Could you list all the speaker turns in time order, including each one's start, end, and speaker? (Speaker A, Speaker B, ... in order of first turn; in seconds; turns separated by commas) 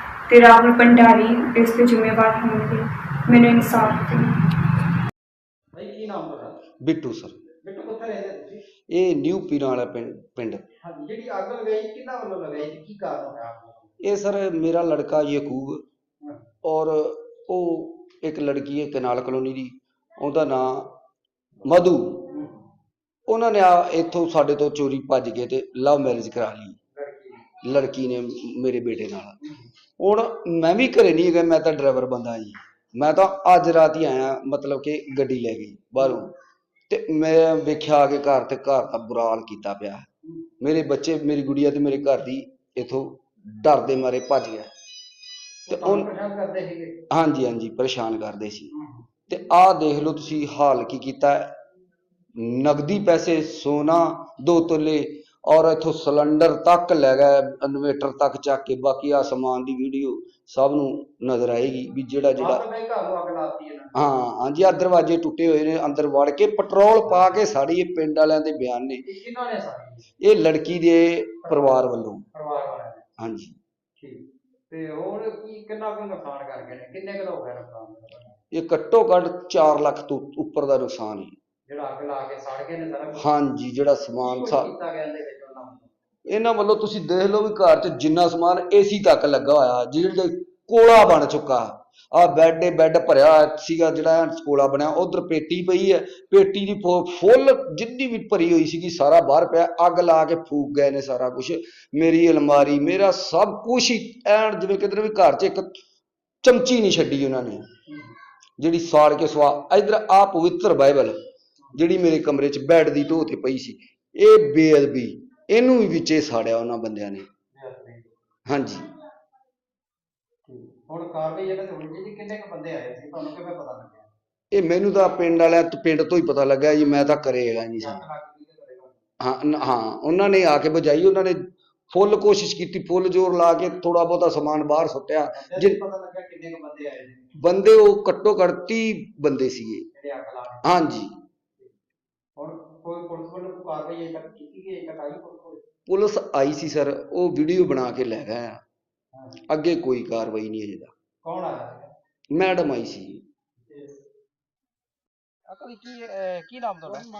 Speaker A: 0.3-4.3, Speaker B: 5.7-6.6, Speaker C: 6.8-7.5, Speaker B: 7.6-8.6, Speaker C: 8.9-10.6, Speaker B: 10.8-13.9, Speaker C: 14.0-15.8, Speaker C: 16.6-21.0, Speaker C: 21.6-22.3, Speaker C: 23.3-26.8, Speaker B: 27.0-27.4, Speaker C: 27.6-29.4, Speaker C: 30.0-36.3, Speaker C: 36.9-40.1, Speaker C: 40.6-44.7, Speaker C: 45.7-46.1, Speaker B: 45.7-46.9, Speaker C: 47.1-48.7, Speaker C: 49.3-51.5, Speaker C: 52.4-62.6, Speaker B: 62.4-63.9, Speaker C: 63.9-69.0, Speaker B: 69.1-70.1, Speaker C: 70.2-72.2, Speaker B: 71.5-71.8, Speaker B: 72.3-73.0, Speaker C: 73.2-73.5, Speaker B: 74.0-78.3, Speaker C: 78.5-81.3, Speaker B: 81.7-83.2, Speaker C: 83.1-84.7, Speaker B: 84.2-85.9, Speaker C: 86.3-105.8, Speaker C: 106.4-107.6, Speaker C: 108.6-111.2, Speaker C: 111.7-117.2, Speaker B: 117.6-118.1, Speaker C: 118.5-118.8, Speaker B: 120.5-124.1, Speaker C: 124.5-128.0, Speaker B: 127.8-128.9, Speaker C: 129.2-135.8, Speaker B: 135.3-137.3, Speaker C: 137.4-139.9, Speaker B: 140.0-140.7, Speaker C: 140.6-141.2, Speaker B: 142.4-145.6, Speaker C: 145.9-148.6, Speaker C: 149.5-150.9, Speaker B: 151.2-151.9, Speaker C: 152.3-153.2, Speaker B: 155.5-157.0